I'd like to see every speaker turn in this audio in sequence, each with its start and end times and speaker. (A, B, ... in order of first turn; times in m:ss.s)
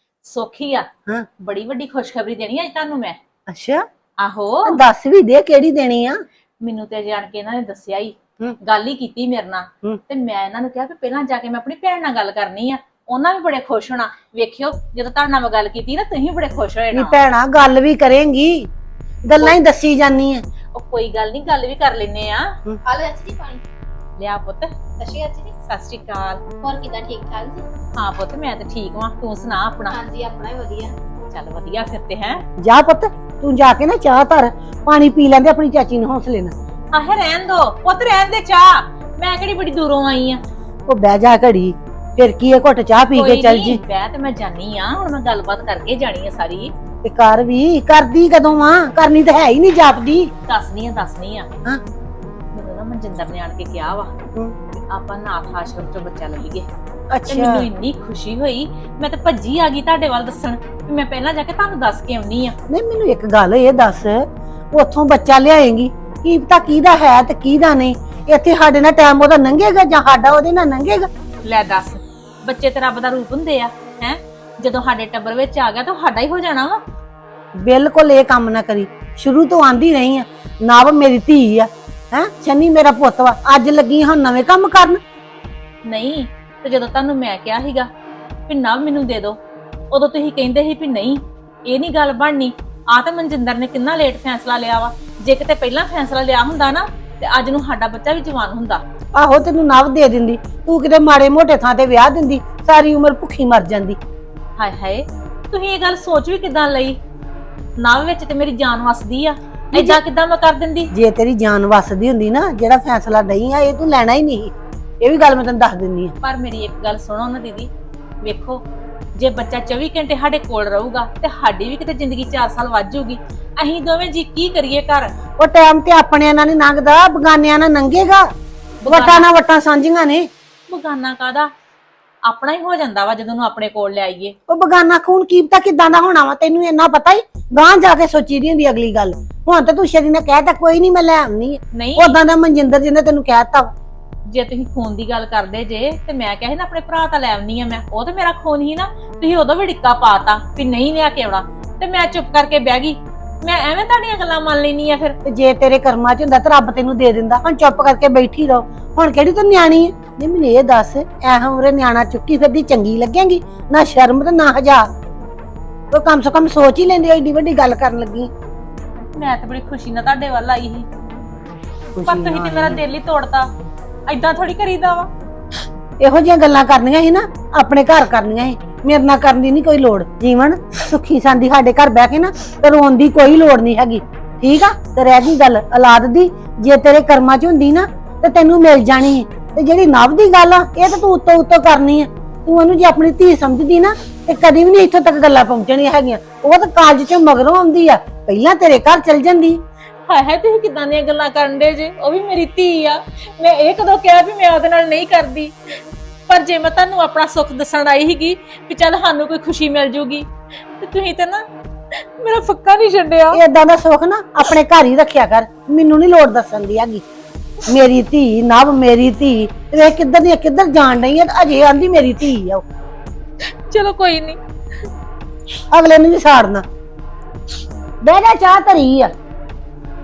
0:00.2-0:00.8 A
0:01.4-0:03.2 A
0:03.5-0:03.8 B
0:04.2-0:04.8 A
0:04.6-0:06.2 B
0:06.6-0:17.2 A
0:16.9-0:18.7 B
0:19.2-0:20.4 B
0:20.7-0:22.5 A
0:22.8-0:23.6 C
0:24.2-0:24.7 A
0:25.0-0:25.5 C
0:25.6-0:26.4 A
0:26.6-0:27.6 C
0:27.9-0:30.0 A
0:29.9-0:30.9 C
0:31.3-0:32.4 A
0:32.6-0:36.5 B
0:36.9-0:40.4 A
0:40.9-0:43.8 B
0:43.1-0:46.7 A
0:47.0-0:50.3 B
0:50.5-0:51.5 A
0:52.5-0:54.1 A
0:54.8-0:56.7 A
0:57.1-0:57.7 B
0:57.3-1:02.5 A
1:02.7-1:11.1 B
1:11.4-1:16.8 A
1:17.6-1:25.0 B
1:25.9-1:27.9 A
1:28.5-1:29.4 A
1:29.9-1:38.8 A
1:39.2-1:44.0 B
1:44.6-1:47.0 A
1:47.8-1:50.9 A
1:49.7-1:50.0 B
1:50.9-1:56.1 B
1:56.2-1:57.7 A
1:58.2-1:58.6 A
1:59.2-2:05.1 A
2:05.4-2:08.3 B
2:08.8-2:09.3 A
2:08.9-2:10.3 B
2:10.7-2:11.5 A
2:12.2-2:14.4 A
2:14.5-2:23.7 B
2:21.7-2:22.2 A
2:24.3-2:35.1 A
2:35.2-2:44.8 B
2:45.9-2:48.3 B
2:49.1-2:50.9 A
2:52.0-2:52.8 B
2:52.1-2:53.5 A
2:54.1-2:55.1 A
2:56.0-3:19.6 B
3:20.0-3:25.5 A
3:26.3-3:30.3 A
3:30.8-3:31.4 A
3:32.0-3:33.4 A
3:33.3-3:37.0 B
3:37.7-3:42.6 B
3:43.4-3:44.4 A
3:45.7-3:46.6 B
3:48.0-3:49.1 B